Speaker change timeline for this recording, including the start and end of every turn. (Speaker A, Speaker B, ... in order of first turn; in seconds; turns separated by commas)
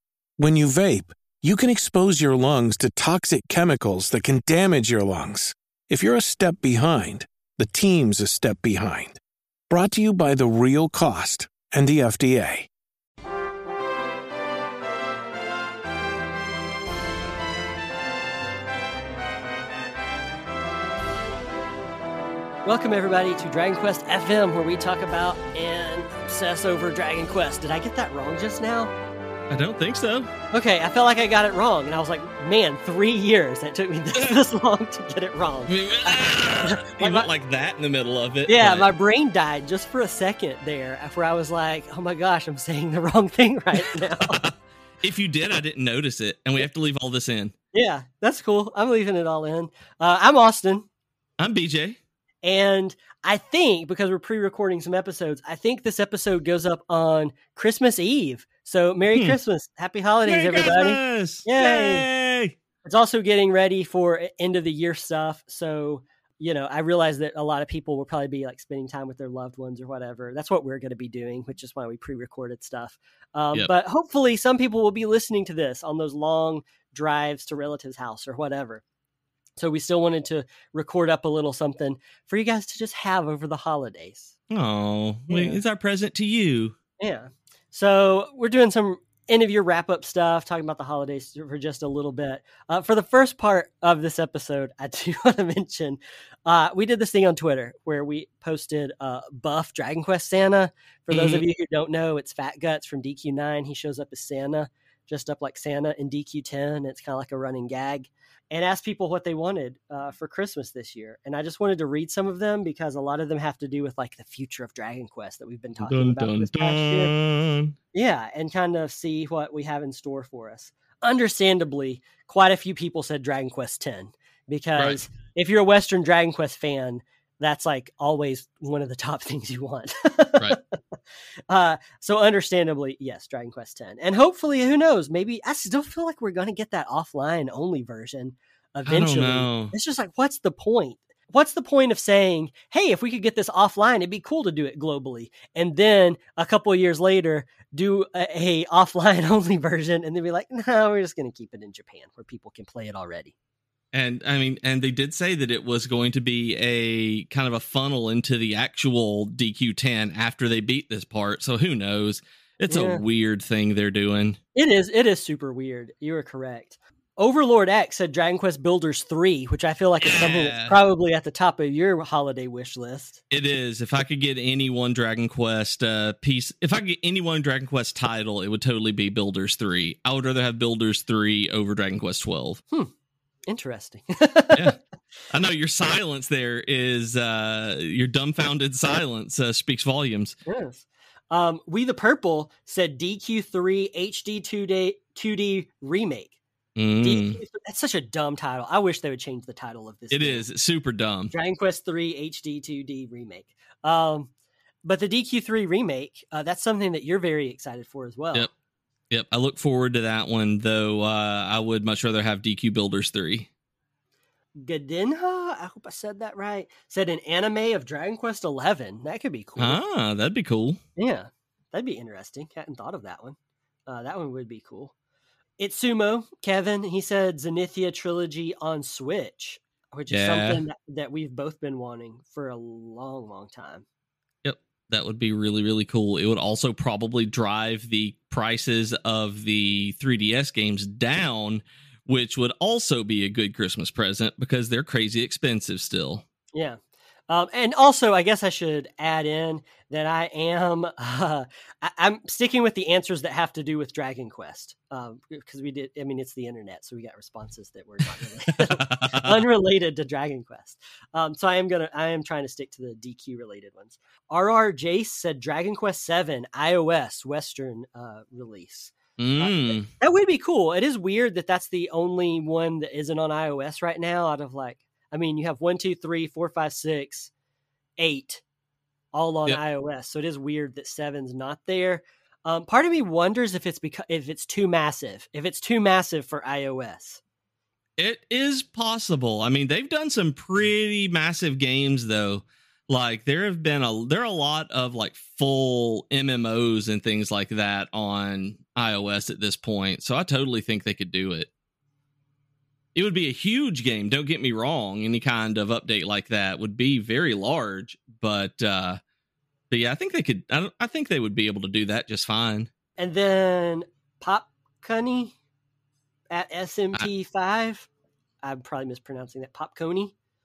Speaker A: 0.4-12.7, Speaker B: 22.6-28.9, Speaker C: 29.5-30.3, Speaker B: 30.5-37.3, Speaker C: 35.7-38.9, Speaker B: 38.5-44.4, Speaker C: 43.8-47.5, Speaker B: 47.7-50.9, Speaker C: 51.4-52.0, Speaker B: 52.4-62.1, Speaker C: 60.3-62.5, Speaker B: 62.9-78.8, Speaker B: 79.6-84.3, Speaker C: 84.5-86.8, Speaker B: 85.3-85.6, Speaker B: 87.0-117.1, Speaker C: 101.1-101.4, Speaker C: 115.8-117.8, Speaker B: 117.9-130.8, Speaker B: 131.5-153.3, Speaker C: 138.9-139.7, Speaker C: 153.9-164.4, Speaker B: 162.7-163.0, Speaker B: 164.6-173.2, Speaker C: 170.0-170.8, Speaker C: 173.3-182.6, Speaker B: 183.5-184.7, Speaker C: 185.3-190.4, Speaker B: 190.5-196.3, Speaker C: 196.8-197.4, Speaker B: 197.0-200.4, Speaker C: 200.1-201.3, Speaker B: 201.3-204.3, Speaker B: 204.8-208.5, Speaker C: 209.1-213.5, Speaker B: 214.6-219.8, Speaker C: 219.6-220.8, Speaker B: 221.0-223.4, Speaker B: 223.9-224.9, Speaker B: 225.6-233.8, Speaker C: 230.1-230.6, Speaker C: 234.4-246.2, Speaker B: 246.5-277.3, Speaker C: 258.7-259.3, Speaker C: 269.2-269.9, Speaker B: 278.0-278.4, Speaker B: 279.1-287.2, Speaker C: 288.0-301.5, Speaker C: 302.9-309.0, Speaker C: 309.7-312.7, Speaker B: 313.0-315.4, Speaker B: 316.3-317.9, Speaker B: 318.4-320.1